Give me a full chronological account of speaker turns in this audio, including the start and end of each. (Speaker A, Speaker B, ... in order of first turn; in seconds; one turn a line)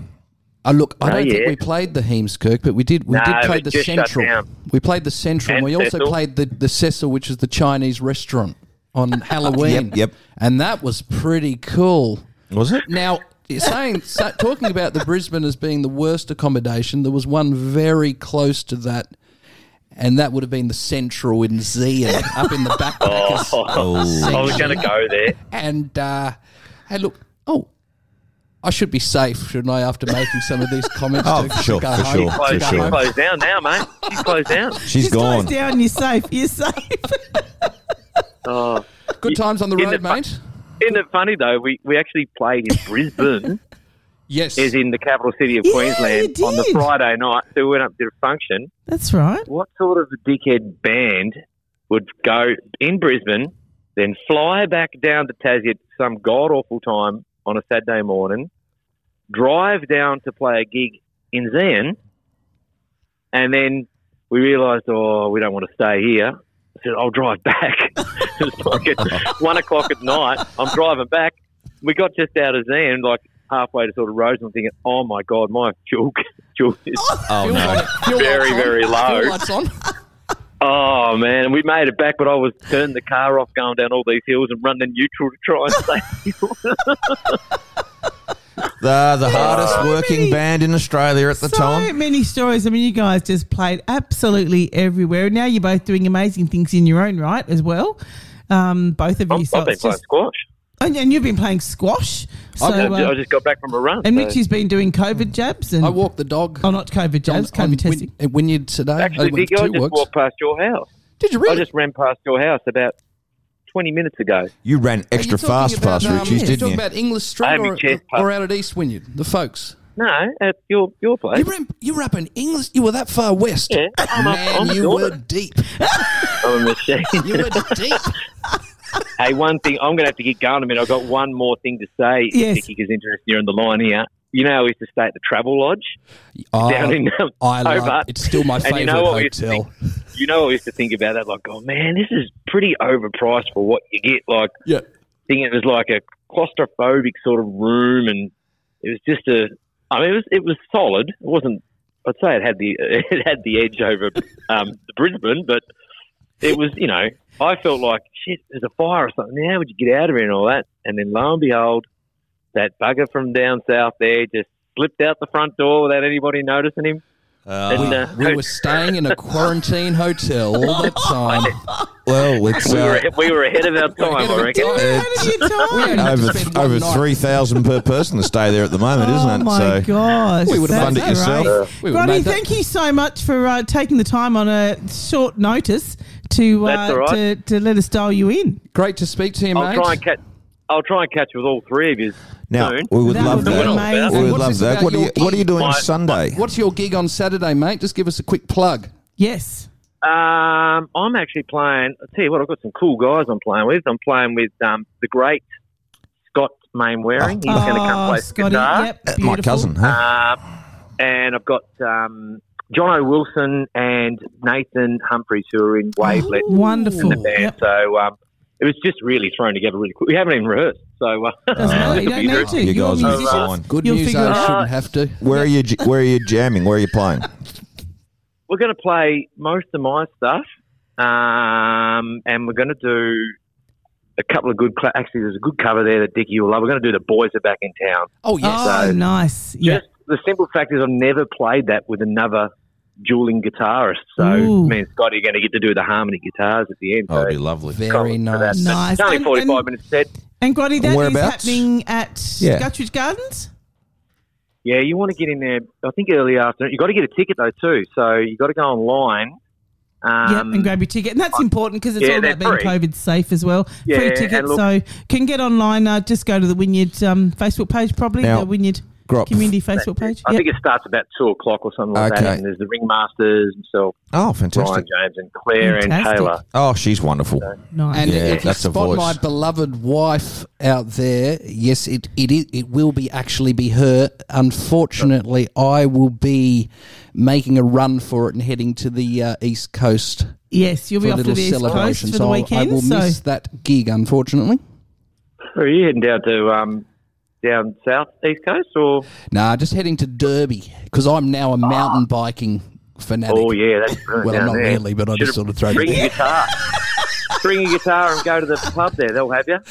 Speaker A: 0.6-12.3
Speaker B: 1.0-1.6
Speaker B: 3.1-4.4
Speaker B: 5.5-6.1
Speaker C: 9.5-10.1
Speaker C: 12.5-12.9
Speaker A: 12.9-19.1
Speaker A: 19.9-24.9
Speaker B: 23.0-25.4
Speaker C: 23.7-24.8
Speaker A: 25.5-26.4
Speaker A: 26.9-27.7
Speaker A: 28.6-33.0
Speaker C: 31.2-33.0
Speaker B: 32.2-34.8
Speaker A: 34.0-34.3
Speaker C: 34.9-35.5
Speaker D: 34.9-37.6
Speaker B: 38.4-40.2
Speaker A: 39.2-40.4
Speaker B: 40.8-43.6
Speaker A: 44.3-44.7
Speaker B: 44.5-48.7
Speaker D: 45.6-46.9
Speaker D: 48.9-49.5
Speaker B: 49.5-51.4
Speaker B: 51.9-58.5
Speaker B: 59.3-62.0
Speaker B: 63.3-79.4
Speaker C: 77.3-77.9
Speaker A: 77.4-79.8
Speaker B: 80.6-87.4
Speaker C: 88.8-91.9
Speaker B: 89.3-89.9
Speaker D: 89.5-90.4
Speaker D: 91.3-98.0
Speaker D: 98.5-100.0
Speaker B: 99.3-100.4
Speaker D: 100.8-103.1
Speaker A: 102.6-103.0
Speaker B: 102.7-104.4
Speaker D: 104.0-106.0
Speaker A: 105.8-106.7
Speaker D: 106.6-108.1
Speaker A: 107.2-110.0
Speaker B: 109.0-110.9
Speaker A: 111.2-111.6
Speaker B: 111.5-112.9
Speaker B: 113.7-114.5
Speaker C: 114.6-116.8
Speaker A: 115.1-119.8
Speaker D: 116.0-116.6
Speaker B: 117.4-118.3
Speaker B: 120.0-121.5
Speaker A: 121.3-125.8
Speaker B: 123.7-125.2
Speaker D: 125.8-126.3
Speaker B: 126.3-127.9
Speaker A: 127.2-128.2
Speaker B: 129.2-135.9
Speaker D: 132.3-132.7
Speaker A: 136.4-139.7
Speaker B: 136.6-139.6
Speaker B: 140.1-144.5
Speaker B: 145.3-148.3
Speaker B: 148.8-155.6
Speaker B: 156.4-161.8
Speaker B: 162.5-167.0
Speaker C: 167.5-168.1
Speaker B: 167.7-169.0
Speaker A: 167.7-171.6
Speaker B: 171.3-171.5
Speaker C: 172.1-173.1
Speaker B: 172.6-174.9
Speaker A: 173.9-177.4
Speaker D: 174.5-176.3
Speaker C: 174.7-181.6
Speaker D: 178.9-188.6
Speaker A: 180.4-182.4
Speaker B: 186.6-187.2
Speaker A: 188.7-190.0
Speaker B: 189.5-190.2
Speaker B: 190.7-194.1
Speaker C: 192.5-196.4
Speaker D: 193.0-194.8
Speaker A: 193.1-198.9
Speaker B: 195.2-195.8
Speaker D: 199.2-199.7
Speaker B: 200.0-205.4
Speaker B: 206.3-208.9
Speaker D: 207.5-209.7
Speaker C: 209.1-210.0
Speaker B: 209.8-210.4
Speaker B: 211.0-223.6
Speaker D: 216.0-217.5
Speaker A: 216.0-217.3
Speaker D: 221.5-224.5
Speaker C: 221.6-223.7
Speaker A: 223.7-225.2
Speaker B: 224.2-224.7
Speaker C: 225.2-227.3
Speaker B: 228.5-230.4
Speaker B: 231.0-233.3
Speaker B: 234.2-238.1
Speaker A: 238.2-239.0
Speaker D: 238.4-239.8
Speaker B: 238.6-238.9
Speaker B: 239.6-242.5
Speaker B: 243.0-247.3
Speaker D: 244.2-244.8
Speaker C: 247.1-247.8
Speaker A: 247.7-248.8
Speaker B: 247.9-250.1
Speaker D: 248.5-249.7
Speaker D: 250.4-253.5
Speaker C: 250.8-251.7
Speaker C: 252.4-252.7
Speaker B: 254.6-259.4
Speaker B: 260.0-260.7
Speaker D: 260.2-270.4
Speaker B: 262.0-262.7
Speaker B: 263.9-264.6
Speaker C: 268.2-268.5
Speaker C: 269.0-269.5
Speaker B: 269.8-274.0
Speaker C: 271.9-272.4
Speaker C: 274.1-274.9
Speaker B: 274.5-276.4
Speaker D: 275.6-276.3
Speaker C: 276.5-277.5
Speaker D: 277.7-278.2
Speaker A: 277.9-290.4
Speaker C: 278.0-279.2
Speaker D: 290.5-293.2
Speaker A: 291.0-294.6
Speaker B: 295.5-296.8
Speaker B: 297.4-299.1
Speaker A: 299.3-303.6
Speaker B: 303.3-306.5
Speaker A: 304.2-306.2
Speaker D: 306.8-307.4
Speaker B: 307.4-309.6